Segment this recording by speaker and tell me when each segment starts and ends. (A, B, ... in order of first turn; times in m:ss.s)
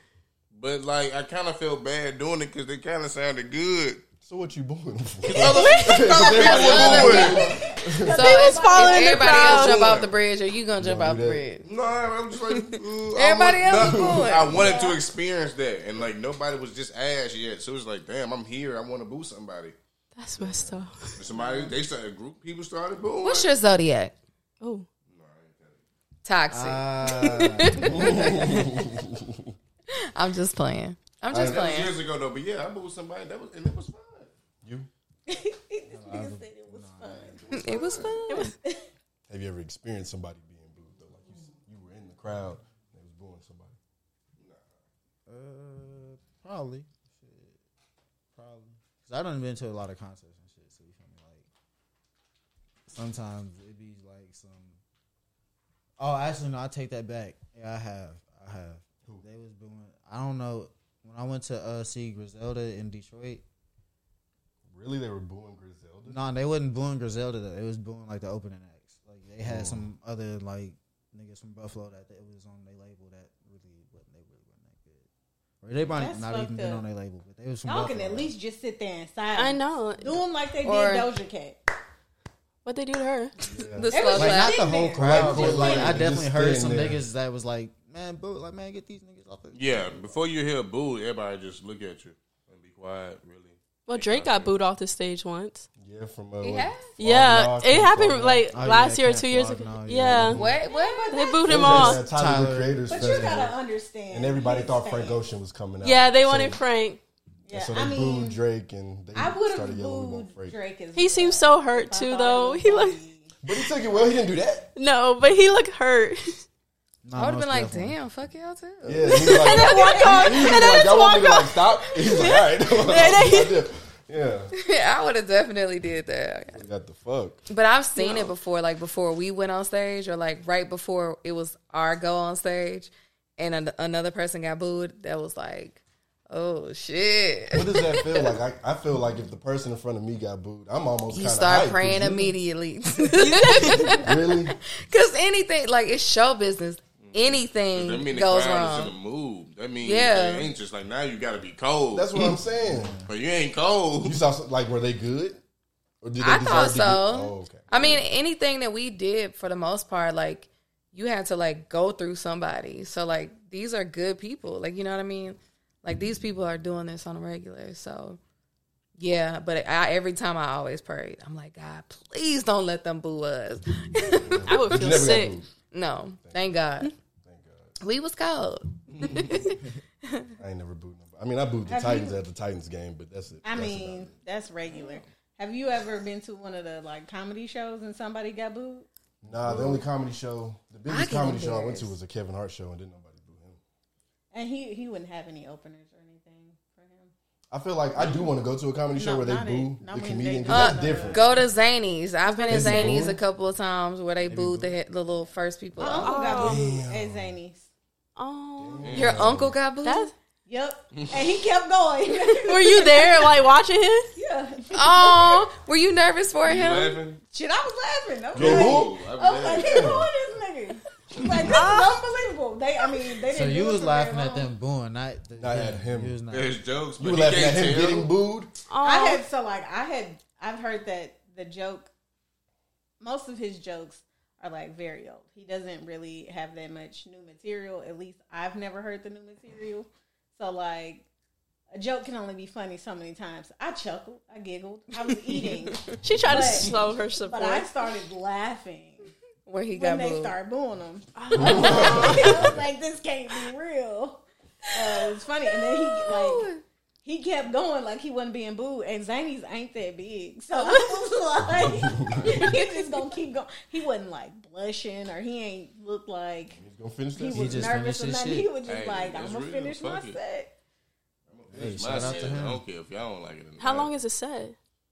0:00.5-0:04.0 A
0:04.2-0:08.2 B
0:05.2-0:07.5 A
0:06.3-0:07.5 C
0:06.4-0:09.8 D
0:08.1-0:11.7 C
0:08.2-0:09.9 E
0:09.6-0:10.1 A
0:10.8-0:11.4 B
0:11.6-0:19.8 A
0:12.5-0:14.6 C
0:13.7-0:14.6 B
0:14.5-0:15.0 D
0:20.2-0:21.2 E
0:20.4-0:20.8 B
0:21.2-0:23.5 A
0:23.2-0:24.1 C
0:24.6-0:24.9 E
0:25.1-0:25.8 A
0:26.2-0:28.7 C
0:26.5-0:28.1 F
0:27.9-0:29.5 B
0:30.0-0:32.0 C
0:31.3-0:31.7 B
0:31.3-0:34.3 A
0:34.6-0:34.9 B
0:35.3-0:38.9 D
0:35.9-0:37.6 F
0:37.5-0:38.5 C
0:39.3-0:43.8 B
0:44.4-0:44.7 A
0:45.3-0:47.6 F
0:48.4-0:51.5 F
0:52.9-0:54.8 F
0:56.0-1:03.4 F
1:04.7-1:06.2 B
1:06.1-1:15.1 F
1:09.4-1:09.8 B
1:15.6-1:18.3 F
1:16.0-1:16.8 D
1:17.6-1:21.6 D
1:19.4-1:20.2 E
1:20.6-1:21.1 C
1:22.6-1:23.3 E
1:23.5-1:24.1 B
1:23.7-1:24.8 C
1:23.9-1:26.1 D
1:24.1-1:30.2 F
1:25.0-1:27.0 B
1:29.5-1:34.6 A
1:33.9-1:35.7 E
1:35.8-1:38.5 B
1:36.4-1:36.9 C
1:37.0-1:40.4 E
1:38.5-1:40.4 F
1:40.3-1:41.3 C
1:40.3-1:40.6 B
1:40.6-1:41.9 D
1:41.1-1:42.0 E
1:41.4-1:43.6 B
1:41.7-1:43.0 F
1:42.9-1:45.2 D
1:44.1-1:46.6 B
1:45.8-1:47.0 E
1:47.4-1:48.4 D
1:47.5-1:50.6 B
1:49.2-1:53.4 D
1:51.0-1:53.0 E
1:53.4-1:54.7 B
1:54.8-1:56.4 E
1:57.0-1:58.0 F
1:57.2-1:59.5 C
1:58.8-2:04.5 B
1:59.1-2:03.6 E
1:59.5-2:00.6 D
2:04.5-2:06.6 C
2:06.5-2:07.4 B
2:07.5-2:18.3 C
2:08.0-2:08.3 E
2:17.5-2:22.4 B
2:21.1-2:29.0 C
2:23.2-2:24.0 E
2:23.9-2:24.6 B
2:27.0-2:32.4 A
2:29.8-2:30.5 C
2:31.9-2:33.0 B
2:32.6-2:33.1 F
2:33.1-2:34.2 A
2:34.0-2:35.4 B
2:36.0-2:38.0 B
2:36.2-2:48.2 C
2:49.0-2:55.1 C
2:54.1-2:55.5 B
2:54.5-2:55.4 E
2:55.7-2:56.9 C
2:56.2-2:56.6 B
2:57.2-2:57.8 B
2:57.8-3:00.3 C
3:00.4-3:04.1 B
3:01.7-3:02.2 D
3:03.4-3:08.9 D
3:09.2-3:13.6 B
3:09.3-3:09.6 A
3:10.9-3:11.9 C
3:14.3-3:17.1 D
3:17.5-3:21.4 B
3:19.0-3:21.4 D
3:20.5-3:26.4 C
3:22.5-3:23.2 B
3:24.2-3:24.8 F
3:25.8-3:27.7 D
3:26.0-3:26.6 E
3:26.4-3:27.4 B
3:28.2-3:29.0 E
3:28.6-3:29.6 B
3:28.8-3:29.3 A
3:28.9-3:30.1 C
3:29.8-3:30.1 E
3:30.5-3:33.4 D
3:31.0-3:31.3 A
3:32.3-3:34.2 E
3:34.2-3:35.5 D
3:34.7-3:37.0 C
3:36.4-3:37.2 A
3:37.3-3:44.6 D
3:38.3-3:39.0 B
3:38.3-3:39.9 A
3:39.5-3:40.1 B
3:41.5-3:42.0 E
3:43.3-3:46.6 F
3:45.4-3:46.2 B
3:46.3-3:48.1 A
3:47.0-3:48.5 B
3:48.7-3:49.2 E
3:48.8-3:51.9 D
3:53.0-4:01.1 D
4:01.7-4:09.1 D
4:06.0-4:07.7 E
4:09.5-4:10.4 C
4:09.7-4:16.5 D
4:11.2-4:12.3 E
4:11.4-4:12.5 B
4:16.0-4:16.6 C
4:17.0-4:26.6 D
4:20.6-4:20.9 E
4:21.7-4:22.4 B
4:26.5-4:27.7 B
4:27.2-4:30.5 D
4:27.3-4:28.5 F
4:28.6-4:30.2 A
4:31.3-4:33.9 A
4:31.5-4:32.2 B
4:31.5-4:32.6 F
4:33.6-4:34.6 E